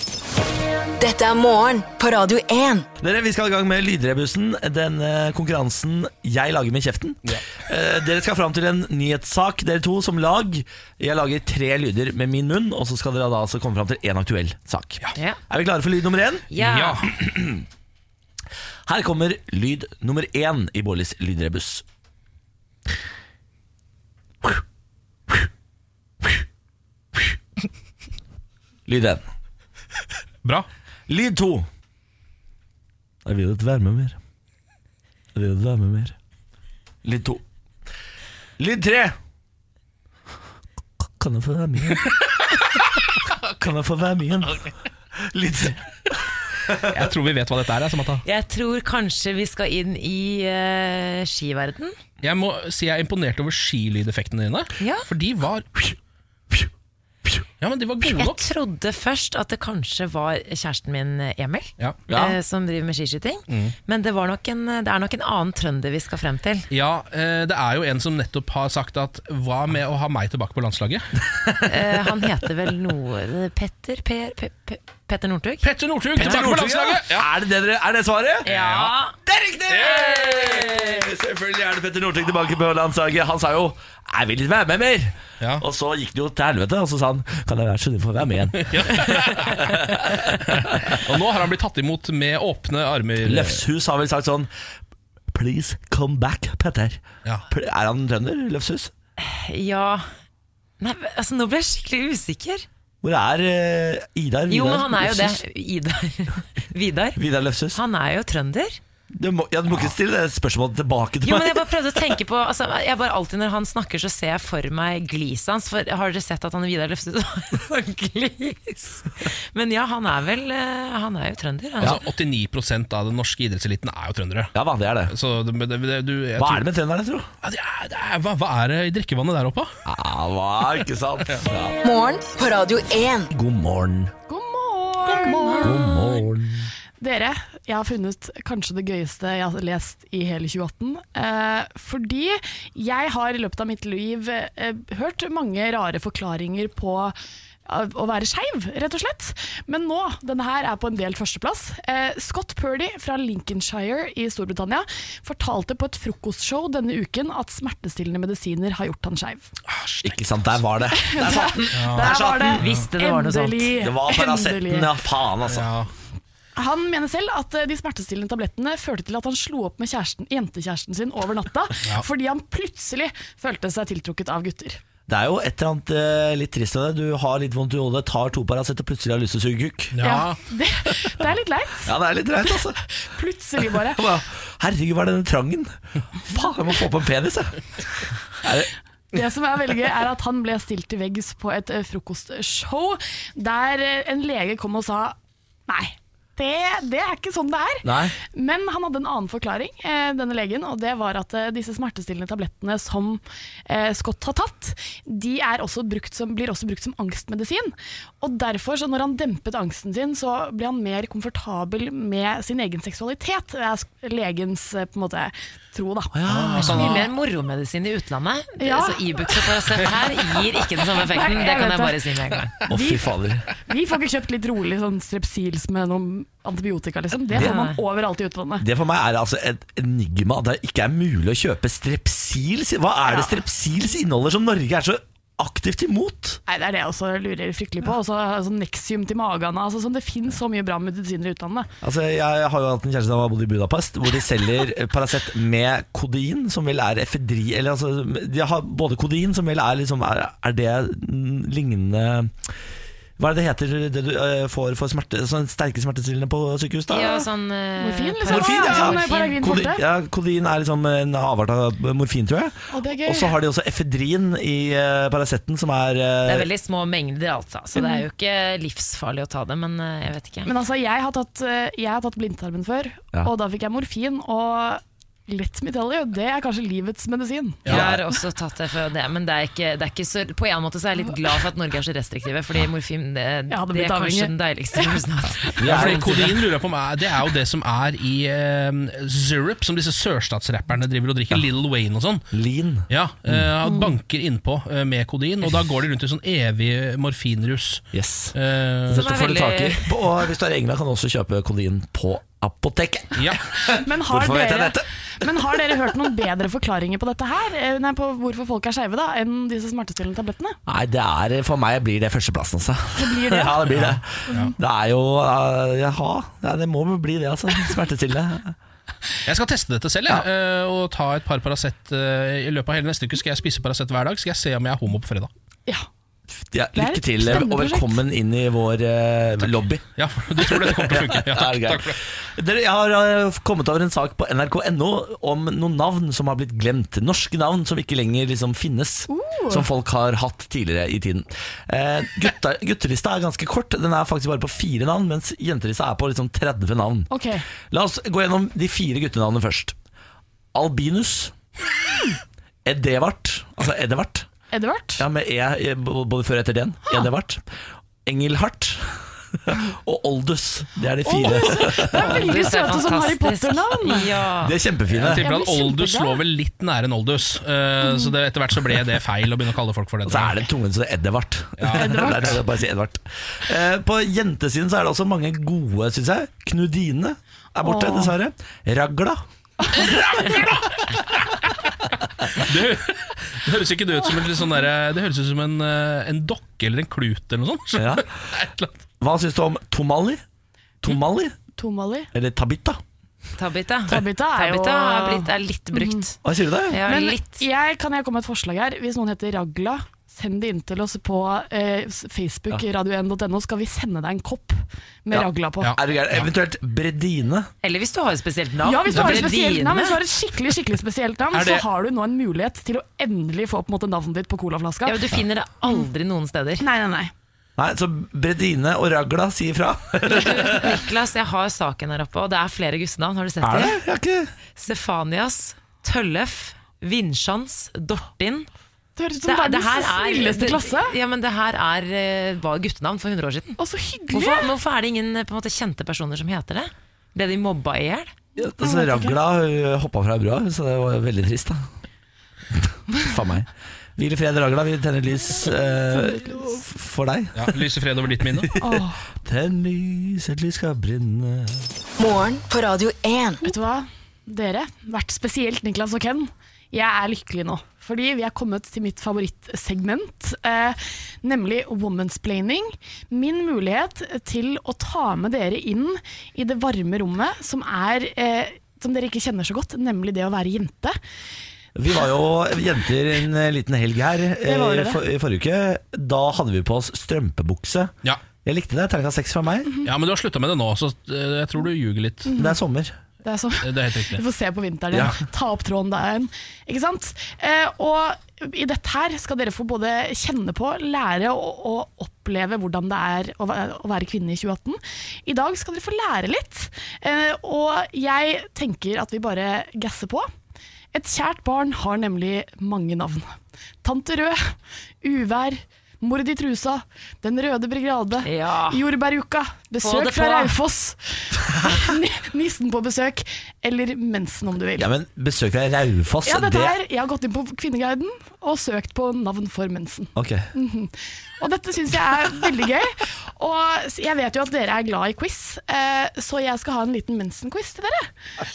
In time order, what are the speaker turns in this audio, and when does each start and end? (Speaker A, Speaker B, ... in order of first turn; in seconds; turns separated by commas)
Speaker A: 1.0-2.9, Speaker B: 3.0-16.5, Speaker C: 15.2-15.4, Speaker C: 16.5-17.1, Speaker D: 16.6-17.1, Speaker B: 17.1-17.6, Speaker B: 18.9-21.8, Speaker B: 28.9-29.2, Speaker B: 31.1-31.7, Speaker B: 33.2-34.2, Speaker B: 35.4-36.2, Speaker B: 37.0-37.4, Speaker B: 38.6-39.2, Speaker B: 41.2-47.0, Speaker D: 46.8-48.2, Speaker C: 48.2-52.0, Speaker D: 52.2-55.9, Speaker C: 54.8-55.1, Speaker D: 57.6-58.5, Speaker C: 58.0-66.7, Speaker B: 62.1-62.4, Speaker D: 63.5-63.8, Speaker D: 66.7-71.2, Speaker C: 71.6-75.7, Speaker D: 75.6-77.3, Speaker B: 76.2-78.5, Speaker D: 78.5-78.9, Speaker C: 78.5-79.2, Speaker B: 79.2-91.0, Speaker D: 79.7-80.2, Speaker C: 80.2-81.0, Speaker D: 88.6-93.6, Speaker B: 93.2-94.5, Speaker B: 95.3-98.9, Speaker C: 99.2-100.1, Speaker C: 100.8-102.7, Speaker B: 103.0-105.4, Speaker C: 104.5-107.2, Speaker B: 107.2-107.8, Speaker C: 107.7-108.8, Speaker B: 109.1-112.1, Speaker C: 111.2-122.0, Speaker D: 121.8-124.5, Speaker B: 124.5-125.1, Speaker D: 125.1-126.7, Speaker B: 126.4-127.3, Speaker D: 127.4-129.7, Speaker B: 129.9-131.8, Speaker A: 131.8-133.3, Speaker B: 133.3-134.1, Speaker E: 134.3-136.2, Speaker D: 135.1-135.8, Speaker B: 135.6-136.7, Speaker E: 137.0-147.2, Speaker E: 147.7-159.5, Speaker D: 159.7-160.2, Speaker B: 160.0-162.6, Speaker E: 160.9-164.9, Speaker D: 161.7-162.1, Speaker C: 162.6-163.8, Speaker B: 163.8-165.7, Speaker D: 165.5-165.9, Speaker E: 166.6-174.8, Speaker B: 175.1-180.0, Speaker D: 179.9-180.4, Speaker E: 180.0-181.9, Speaker B: 181.8-182.8, Speaker E: 182.9-184.0, Speaker B: 183.8-188.7, Speaker E: 189.1-195.2, Speaker E: 195.7-216.2, Speaker B: 197.8-198.2, Speaker B: 216.1-216.9, Speaker D: 216.3-217.1, Speaker C: 216.6-222.6, Speaker E: 218.6-219.6, Speaker E: 220.9-222.1, Speaker E: 222.7-228.7, Speaker B: 222.7-223.5, Speaker C: 227.3-227.8, Speaker B: 228.6-236.4, Speaker E: 233.1-233.4, Speaker E: 236.5-241.7, Speaker B: 241.8-252.6, Speaker B: 253.2-257.3, Speaker C: 256.9-259.6, Speaker E: 257.8-259.8, Speaker B: 258.3-266.5, Speaker E: 262.7-263.3, Speaker C: 266.2-270.5, Speaker E: 267.8-268.1, Speaker E: 270.4-277.7, Speaker C: 277.7-285.9, Speaker B: 277.7-278.0, Speaker E: 283.5-285.0, Speaker B: 285.6-286.4, Speaker D: 285.6-292.2, Speaker B: 292.3-293.5, Speaker D: 292.9-299.1, Speaker B: 297.9-298.4, Speaker B: 298.9-305.9, Speaker C: 298.9-299.9, Speaker D: 303.2-303.4, Speaker E: 303.7-310.6, Speaker B: 310.7-318.6, Speaker E: 313.0-313.7, Speaker D: 313.7-314.5, Speaker D: 319.3-325.3, Speaker B: 326.5-347.1, Speaker E: 326.8-328.0, Speaker D: 330.0-332.0, Speaker E: 339.1-339.7, Speaker E: 347.1-347.5, Speaker B: 347.6-349.8, Speaker B: 350.5-351.3, Speaker B: 352.6-354.3, Speaker E: 354.5-355.0, Speaker B: 355.0-357.5, Speaker B: 358.1-362.3, Speaker E: 361.1-364.2, Speaker C: 361.9-364.6, Speaker B: 364.4-365.2, Speaker D: 365.0-370.5, Speaker E: 365.1-366.2, Speaker E: 367.8-368.1, Speaker B: 370.1-379.2, Speaker D: 371.6-372.4, Speaker E: 371.7-372.4, Speaker E: 377.6-378.1, Speaker D: 379.7-381.5, Speaker D: 382.3-388.8, Speaker B: 387.8-388.1, Speaker B: 389.0-390.2, Speaker B: 390.8-391.4, Speaker E: 391.6-392.1, Speaker B: 392.1-392.8, Speaker C: 393.4-396.1, Speaker E: 393.9-396.1, Speaker B: 396.2-396.8, Speaker C: 396.7-397.4, Speaker E: 396.9-405.8, Speaker B: 405.1-407.5, Speaker D: 405.6-406.2, Speaker C: 407.6-410.0, Speaker E: 408.6-415.0, Speaker D: 411.3-411.6, Speaker C: 414.8-416.7, Speaker E: 416.6-417.1, Speaker B: 417.6-420.8, Speaker C: 420.1-423.8, Speaker B: 423.4-424.3, Speaker C: 424.6-428.5, Speaker E: 429.0-430.9, Speaker C: 429.2-433.6, Speaker E: 433.6-434.5, Speaker C: 434.1-438.1, Speaker B: 438.4-441.7, Speaker E: 438.6-439.2, Speaker B: 442.5-447.6, Speaker E: 445.9-446.4, Speaker D: 447.4-448.5, Speaker B: 448.4-451.7, Speaker E: 448.6-449.0, Speaker A: 452.0-453.5, Speaker E: 453.4-471.0, Speaker B: 471.8-477.9, Speaker E: 474.4-475.0, Speaker B: 478.4-479.7, Speaker D: 479.9-482.3, Speaker E: 482.3-482.6, Speaker B: 482.4-483.0, Speaker E: 483.2-500.3, Speaker D: 483.6-484.2, Speaker B: 484.9-485.2, Speaker E: 500.9-503.3, Speaker E: 503.8-514.9, Speaker C: 508.2-508.9, Speaker C: 509.8-510.6, Speaker B: 511.5-511.9, Speaker B: 514.8-516.8, Speaker E: 516.2-528.1, Speaker B: 520.2-520.5